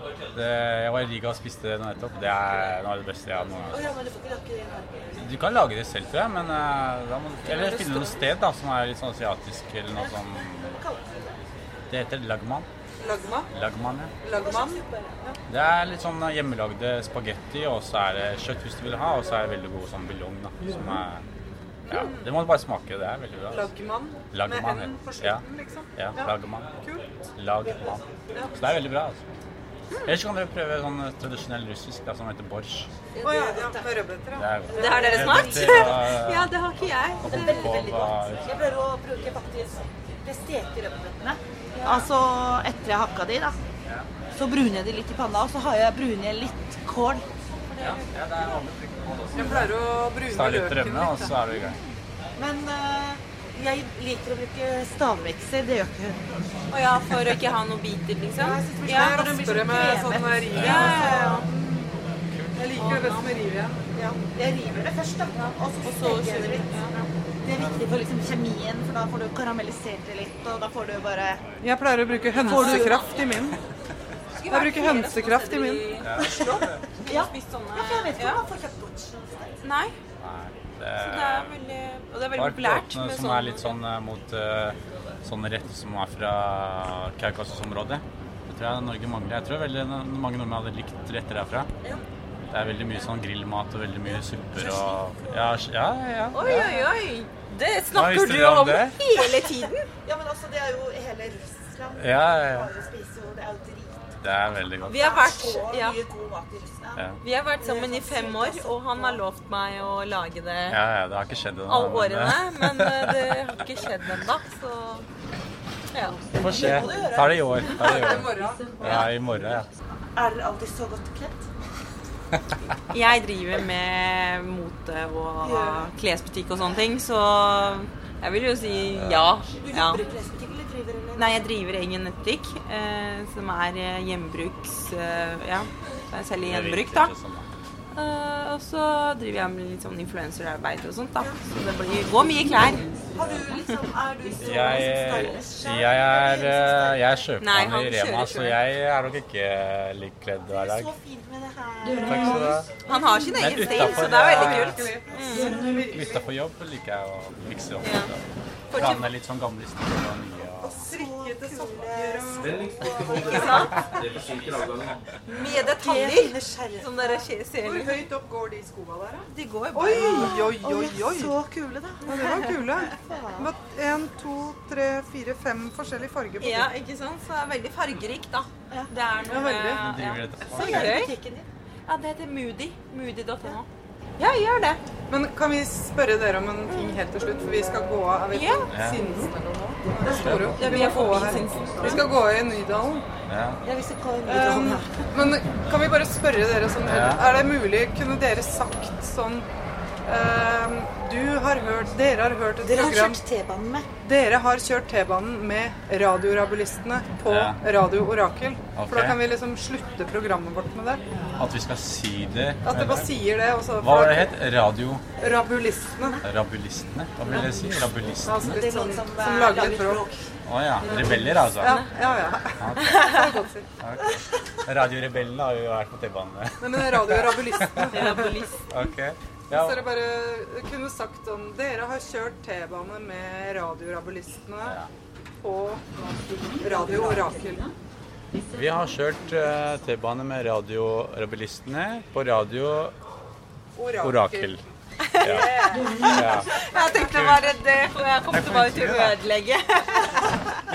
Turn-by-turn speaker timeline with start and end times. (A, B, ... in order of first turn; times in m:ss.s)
0:00.3-0:03.9 A
0:03.7-0:05.2 B
0:05.2-0:10.7 A
0:07.5-0:08.0 C
0:09.9-0:11.4 B
0:11.9-0:12.7 A
0:13.0-0:13.5 D
0:13.5-0:14.1 A
0:14.2-0:14.8 D
0:14.3-0:15.4 B
0:15.5-0:21.2 A
0:21.9-0:22.3 D
0:21.9-0:23.7 A
0:23.5-0:27.2 D
0:24.3-0:26.8 A
0:27.3-0:28.0 A
0:28.4-0:28.8 D
0:28.6-0:29.2 A
0:29.9-0:30.2 C
0:30.0-0:32.9 A
0:33.1-0:34.0 B
0:33.2-0:35.7 D
0:34.4-0:36.6 A
0:34.7-0:37.8 C
0:34.8-0:35.9 B
0:37.2-0:38.6 A
0:37.2-0:43.6 B
0:44.3-0:47.2 B
0:47.8-0:51.8 A
0:49.3-0:51.4 D
0:52.4-0:56.2 B
0:56.7-0:59.0 C
0:58.4-1:01.5 B
0:58.7-1:01.9 D
1:00.6-1:01.4 C
1:02.5-1:04.2 D
1:02.8-1:03.4 C
1:04.2-1:11.4 B
1:05.4-1:07.0 C
1:11.6-1:13.6 D
1:12.4-1:13.3 B
1:12.4-1:13.2 C
1:14.4-1:18.4 C
1:14.5-1:15.9 D
1:15.9-1:16.8 A
1:16.2-1:19.6 B
1:19.6-1:19.9 C
1:20.2-1:21.6 A
1:21.0-1:23.8 C
1:22.3-1:31.7 A
1:32.5-1:36.9 A
1:34.0-1:35.6 B
1:36.3-1:39.8 C
1:37.9-1:39.0 A
1:40.0-1:44.1 B
1:42.0-1:42.7 A
1:44.2-1:45.0 A
1:44.9-1:46.0 C
1:44.9-1:49.2 B
1:47.2-1:50.8 C
1:50.7-1:53.2 A
1:51.7-1:55.1 C
1:55.9-1:56.2 C
1:56.3-1:58.1 B
1:56.4-1:59.7 A
1:57.7-1:58.7 D
1:58.8-1:59.1 C
2:00.2-2:01.4 B
2:02.9-2:10.0 C
2:05.4-2:05.9 B
2:08.9-2:09.3 A
2:09.6-2:11.4 B
2:11.2-2:17.1 C
2:16.4-2:17.4 A
2:17.9-2:22.9 C
2:23.1-2:27.1 B
2:24.4-2:30.9 A
2:27.4-2:28.6 C
2:30.5-2:32.7 B
2:32.0-2:38.2 A
2:32.8-2:35.6 C
2:33.8-2:36.3 D
2:37.8-2:38.1 C
2:38.7-2:39.1 C
2:38.7-2:40.9 A
2:40.6-2:43.8 B
2:40.9-2:43.7 D
2:43.3-2:43.8 C
2:45.3-2:48.0 C
2:45.3-2:47.2 B
2:47.5-2:51.4 D
2:49.3-2:50.5 C
2:50.0-2:52.1 B
2:52.0-2:56.7 D
2:52.0-2:52.3 C
2:52.9-2:53.5 B
2:56.4-3:01.1 C
2:59.2-3:00.0 D
2:59.8-3:01.0 A
3:00.5-3:01.5 B
3:01.8-3:03.6 C
3:04.2-3:04.8 C
3:05.1-3:13.0 D
3:06.7-3:07.0 C
3:08.3-3:08.7 C
3:08.7-3:09.0 A
3:10.0-3:12.0 B
3:10.1-3:10.5 A
3:10.6-3:12.1 C
3:13.2-3:13.6 A
3:13.6-3:15.0 B
3:14.2-3:19.5 D
3:16.8-3:17.3 A
3:20.0-3:23.2 D
3:22.6-3:23.9 B
3:24.0-3:31.0 D
3:27.3-3:27.6 A
3:28.7-3:29.2 A
3:31.4-3:33.2 A
3:32.6-3:34.3 D
3:33.8-3:35.0 A
3:35.2-3:36.2 D
3:36.2-3:38.6 A
3:38.2-3:40.0 D
3:38.3-3:40.2 B
3:40.4-3:41.8 A
3:40.8-3:41.5 B
3:40.9-3:43.7 D
3:42.6-3:43.0 A
3:42.9-3:43.3 C
3:43.8-3:48.1 A
3:46.6-3:48.4 D
3:47.9-3:48.5 C
3:48.7-3:49.9 A
3:49.5-3:54.8 D
3:54.6-3:54.9 A
3:55.4-3:55.8 D
3:56.1-3:57.7 B
3:56.6-3:57.7 D
3:58.5-4:02.9 A
4:03.8-4:04.6 D
4:04.0-4:04.6 A
4:05.0-4:10.4 C
4:05.2-4:05.5 A
4:06.1-4:07.5 A
4:06.2-4:07.0 D
4:08.3-4:09.2 A